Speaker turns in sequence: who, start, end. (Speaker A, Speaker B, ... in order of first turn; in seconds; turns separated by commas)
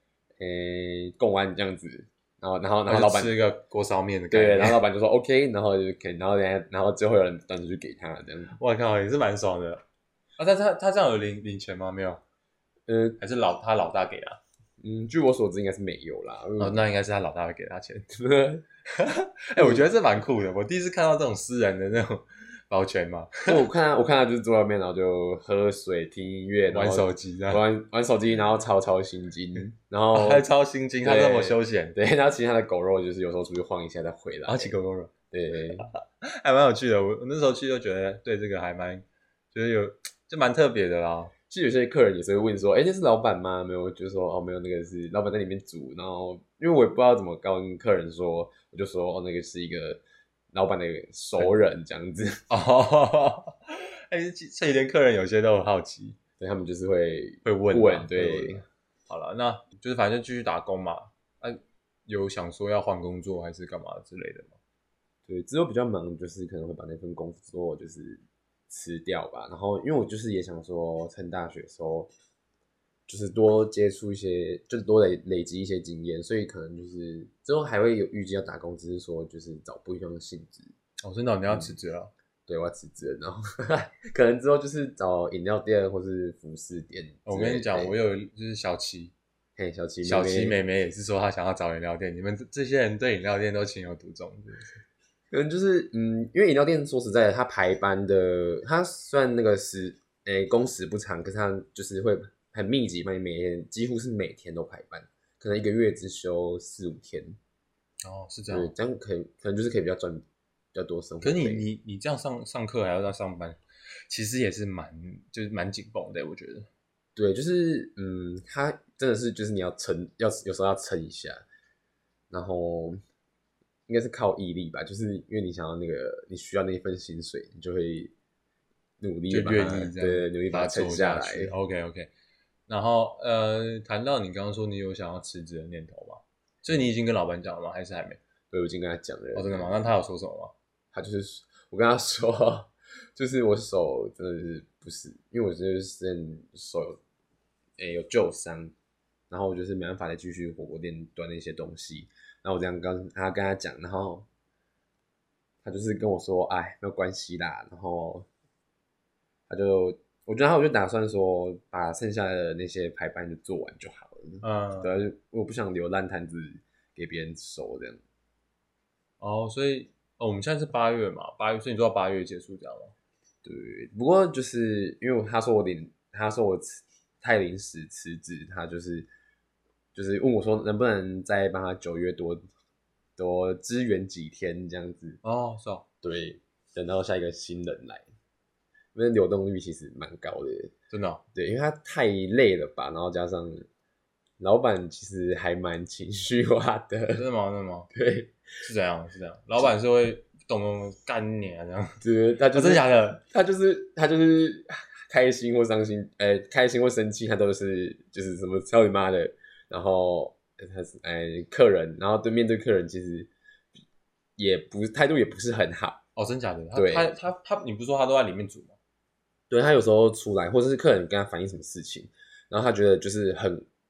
Speaker A: 0.4-3.3, Speaker B: 2.9-4.8, Speaker A: 4.3-8.5, Speaker B: 8.5-9.8, Speaker B: 10.4-12.2, Speaker A: 12.9-13.2, Speaker B: 13.2-14.4, Speaker A: 14.8-16.8, Speaker B: 16.6-18.1, Speaker A: 18.1-18.6, Speaker B: 18.9-23.6, Speaker A: 19.5-19.8, Speaker A: 23.5-30.4, Speaker B: 26.7-27.6, Speaker B: 30.1-31.9, Speaker A: 31.0-34.8, Speaker B: 34.5-35.1, Speaker A: 35.3-35.9, Speaker B: 35.8-41.3, Speaker A: 41.5-50.0, Speaker A: 50.5-52.4, Speaker B: 52.5-56.2, Speaker A: 56.4-58.6, Speaker B: 57.4-64.6, Speaker A: 65.3-72.1, Speaker A: 73.1-80.7, Speaker B: 81.0-82.1, Speaker A: 82.5-87.9, Speaker B: 87.2-89.1, Speaker A: 89.5-90.6, Speaker B: 90.0-94.8, Speaker A: 95.3-107.4, Speaker B: 108.0-108.7, Speaker A: 108.5-111.7, Speaker B: 111.2-116.7, Speaker A: 117.2-121.4, Speaker A: 122.3-123.0, Speaker A: 123.9-128.1, Speaker A: 129.0-131.5, Speaker B: 129.3-132.1, Speaker B: 132.7-138.2, Speaker A: 138.5-139.9, Speaker B: 139.3-140.5, Speaker A: 140.9-147.0, Speaker A: 147.8-148.7, Speaker A: 149.3-154.2, Speaker A: 155.6-158.3, Speaker A: 159.5-168.0, Speaker B: 164.4-165.0, Speaker B: 169.2-172.9, Speaker A: 173.4-179.1, Speaker A: 179.9-182.4, Speaker A: 183.2-185.2, Speaker B: 185.2-185.8, Speaker A: 186.0-188.1, Speaker A: 188.9-190.7, Speaker B: 190.9-191.2, Speaker A: 191.3-193.7, Speaker A: 194.4-197.2, Speaker B: 197.1-197.9, Speaker A: 197.9-198.3, Speaker B: 198.6-203.2, Speaker A: 202.0-213.3, Speaker A: 214.4-216.0, Speaker B: 216.2-218.8, Speaker A: 216.7-217.1, Speaker A: 219.5-223.6